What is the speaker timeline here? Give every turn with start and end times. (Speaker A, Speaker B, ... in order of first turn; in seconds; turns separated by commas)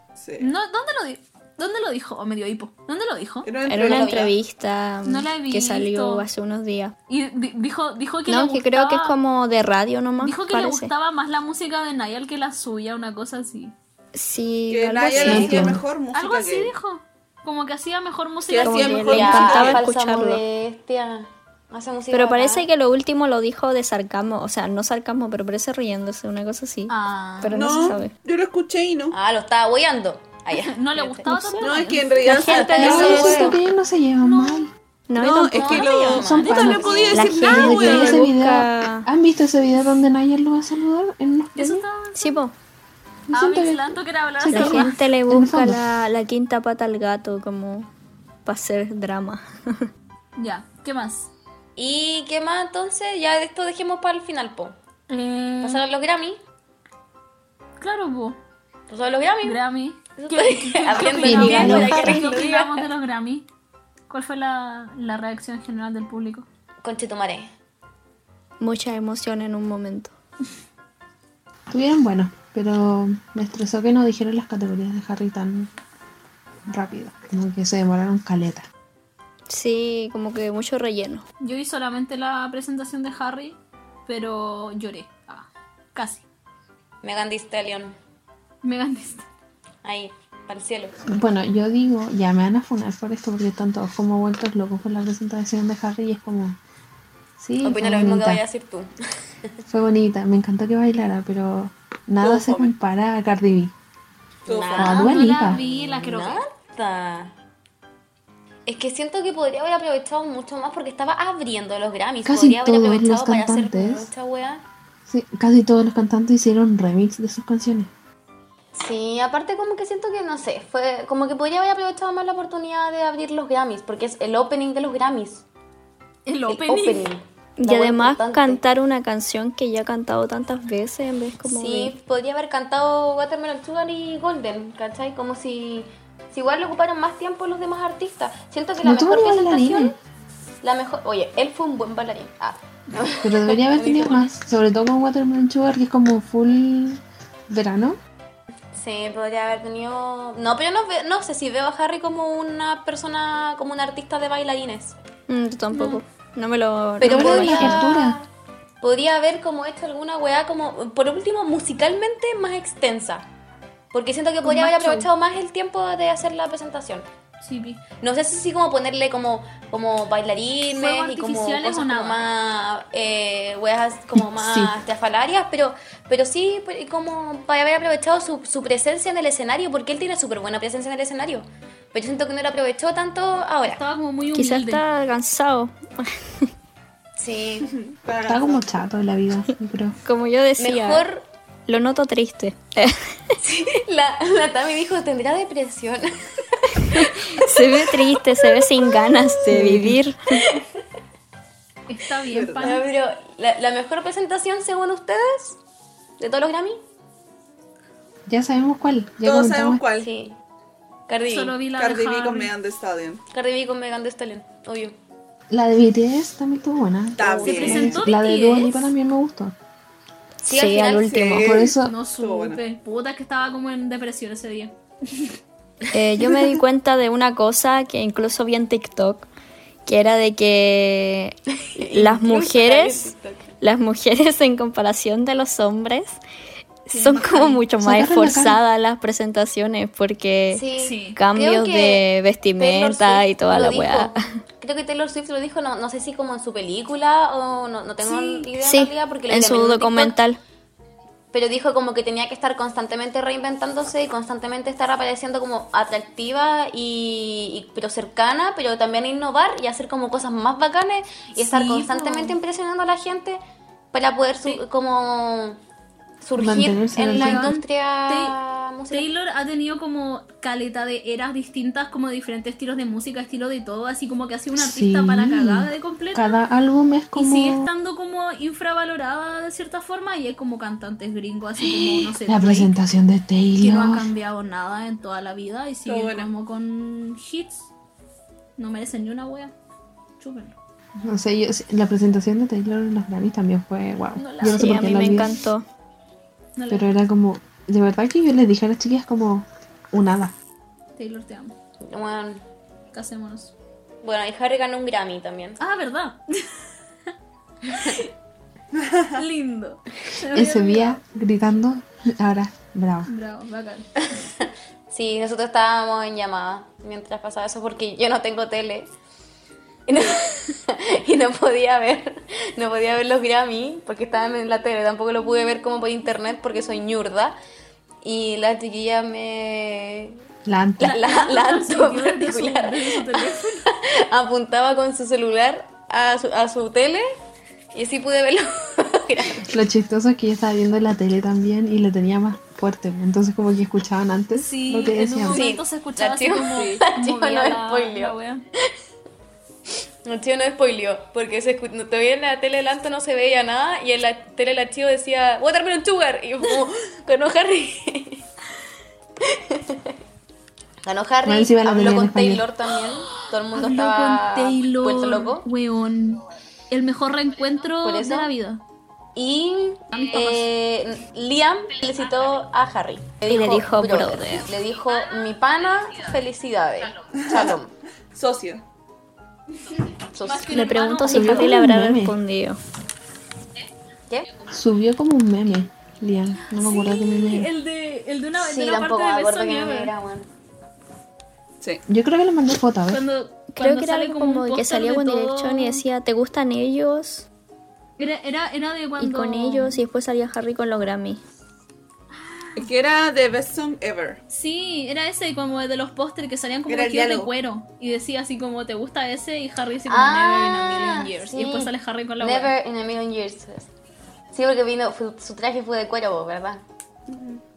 Speaker A: 0.1-0.5, Speaker B: 0.4-3.5, Speaker A: 3.4-4.3, Speaker C: 3.6-6.9, Speaker D: 3.7-4.3, Speaker B: 5.0-6.2, Speaker B: 7.1-9.1, Speaker C: 8.3-10.9, Speaker B: 10.2-13.7, Speaker C: 14.1-15.8, Speaker A: 14.7-16.7, Speaker D: 15.2-15.6, Speaker E: 15.2-15.8, Speaker B: 16.1-19.4, Speaker A: 18.5-19.8, Speaker C: 18.6-20.4, Speaker D: 19.1-22.7, Speaker C: 22.1-28.1, Speaker B: 26.9-27.6, Speaker A: 27.5-29.1, Speaker D: 29.1-33.6, Speaker B: 30.5-33.6, Speaker A: 31.6-33.5, Speaker C: 32.5-33.5, Speaker E: 32.8-34.7, Speaker B: 34.2-34.6, Speaker C: 35.1-36.0, Speaker A: 35.1-38.2, Speaker D: 35.5-37.2, Speaker E: 36.1-41.8, Speaker B: 36.1-38.2, Speaker C: 37.1-39.1, Speaker B: 41.5-42.4, Speaker C: 42.1-42.5, Speaker B: 43.3-45.0, Speaker E: 43.3-45.8, Speaker C: 44.5-47.9, Speaker C: 48.4-49.9, Speaker B: 50.4-51.3, Speaker D: 51.8-54.7, Speaker B: 55.1-55.8, Speaker D: 55.6-56.4, Speaker B: 57.8-58.4, Speaker D: 58.9-59.6, Speaker B: 59.4-63.4, Speaker D: 60.2-62.9, Speaker E: 61.2-62.1, Speaker C: 61.3-62.3, Speaker B: 64.1-66.5, Speaker D: 66.8-67.5, Speaker C: 68.6-70.1, Speaker E: 71.7-75.7, Speaker E: 76.7-78.7, Speaker C: 79.5-81.2, Speaker B: 81.4-86.2, Speaker D: 87.0-88.0, Speaker B: 88.6-89.2, Speaker D: 89.8-90.9, Speaker E: 91.1-96.6, Speaker E: 97.4-98.4, Speaker D: 97.6-98.9, Speaker E: 99.7-103.7, Speaker A: 102.2-102.7, Speaker D: 104.4-107.3, Speaker A: 104.5-105.0, Speaker E: 104.8-105.6, Speaker B: 104.9-106.4, Speaker D: 108.7-114.6, Speaker E: 112.2-114.1, Speaker E: 115.0-117.9, Speaker D: 118.7-125.5, Speaker B: 126.2-127.0, Speaker D: 126.5-128.6, Speaker C: 127.6-131.9, Speaker D: 131.4-139.9, Speaker E: 138.8-139.9, Speaker D: 140.6-144.3, Speaker E: 143.2-148.0, Speaker D: 148.7-154.9, Speaker C: 155.3-157.8, Speaker B: 155.7-156.0, Speaker D: 157.0-158.3, Speaker E: 157.0-158.2, Speaker D: 158.8-163.3, Speaker D: 163.9-167.0, Speaker B: 164.4-165.1, Speaker B: 167.4-167.8, Speaker D: 168.0-183.8, Speaker B: 170.7-172.2, Speaker E: 174.1-174.7, Speaker B: 183.7-184.8, Speaker C: 184.3-186.5, Speaker D: 187.2-187.7, Speaker A: 187.7-188.8, Speaker E: 188.2-189.9, Speaker C: 190.0-191.1, Speaker D: 190.6-191.2, Speaker C: 191.7-193.3, Speaker D: 193.4-199.4, Speaker C: 196.9-200.4, Speaker E: 199.5-200.0, Speaker D: 200.4-200.7, Speaker B: 201.9-202.8, Speaker A: 202.3-202.8, Speaker D: 202.6-205.6, Speaker D: 206.2-206.8, Speaker E: 208.3-209.8, Speaker A: 209.2-210.1, Speaker D: 210.0-210.4, Speaker D: 211.1-211.6, Speaker B: 211.2-212.5, Speaker A: 211.7-213.2, Speaker D: 213.3-214.9, Speaker E: 215.5-219.5, Speaker A: 217.2-218.0, Speaker D: 217.2-217.8, Speaker B: 217.4-218.9, Speaker C: 220.4-221.6, Speaker D: 220.4-221.3, Speaker A: 221.0-222.6, Speaker E: 221.4-221.9, Speaker B: 221.8-224.7, Speaker C: 225.9-229.3, Speaker D: 226.2-226.5, Speaker C: 229.8-236.2, Speaker D: 231.6-233.5, Speaker C: 236.9-244.2, Speaker B: 236.9-237.6, Speaker E: 237.8-238.6, Speaker D: 240.5-250.2, Speaker B: 240.8-241.2, Speaker B: 248.0-248.5, Speaker C: 248.6-250.4, Speaker D: 251.3-263.4, Speaker B: 261.4-262.4, Speaker D: 263.9-265.6, Speaker D: 266.2-269.1, Speaker E: 266.3-267.5, Speaker B: 267.1-268.4, Speaker B: 268.9-276.4, Speaker E: 274.5-277.7, Speaker B: 277.1-282.7, Speaker E: 281.6-284.1, Speaker B: 283.6-287.7, Speaker A: 285.8-286.3, Speaker B: 288.6-289.5, Speaker B: 290.2-290.5, Speaker E: 291.0-295.3, Speaker B: 294.1-295.3, Speaker C: 294.4-295.6, Speaker B: 296.6-296.9, Speaker E: 296.7-300.3, Speaker B: 301.0-301.6, Speaker D: 301.9-302.4, Speaker B: 302.9-303.5, Speaker D: 304.0-305.6, Speaker B: 305.6-306.7, Speaker B: 307.7-308.1, Speaker A: 308.8-309.2, Speaker B: 309.1-311.0, Speaker E: 310.3-313.1, Speaker B: 313.1-314.0, Speaker D: 314.2-318.9, Speaker D: 319.9-327.4, Speaker D: 328.0-330.2, Speaker E: 330.4-331.0, Speaker D: 330.8-337.1, Speaker B: 330.8-333.7, Speaker D: 337.7-339.5, Speaker E: 339.4-345.5, Speaker B: 344.3-348.4, Speaker D: 345.3-348.1, Speaker D: 350.0-358.2, Speaker D: 359.2-359.9, Speaker D: 360.8-365.5, Speaker E: 361.2-362.4, Speaker B: 363.5-368.6, Speaker D: 367.8-368.3, Speaker D: 369.1-377.7, Speaker B: 369.9-370.5, Speaker C: 373.3-374.5, Speaker A: 377.2-377.5, Speaker A: 378.1-378.6, Speaker D: 380.1-380.6, Speaker B: 380.2-381.6, Speaker C: 380.4-382.6, Speaker E: 381.1-382.1, Speaker E: 384.5-387.5, Speaker B: 386.6-389.9, Speaker D: 388.4-390.3, Speaker E: 391.9-393.0, Speaker B: 392.9-395.8, Speaker C: 393.5-397.2, Speaker B: 398.0-399.8, Speaker C: 399.0-401.2, Speaker B: 402.1-402.7, Speaker A: 402.5-404.2, Speaker B: 404.3-412.5, Speaker A: 406.7-407.3, Speaker D: 409.9-413.7, Speaker D: 414.3-416.6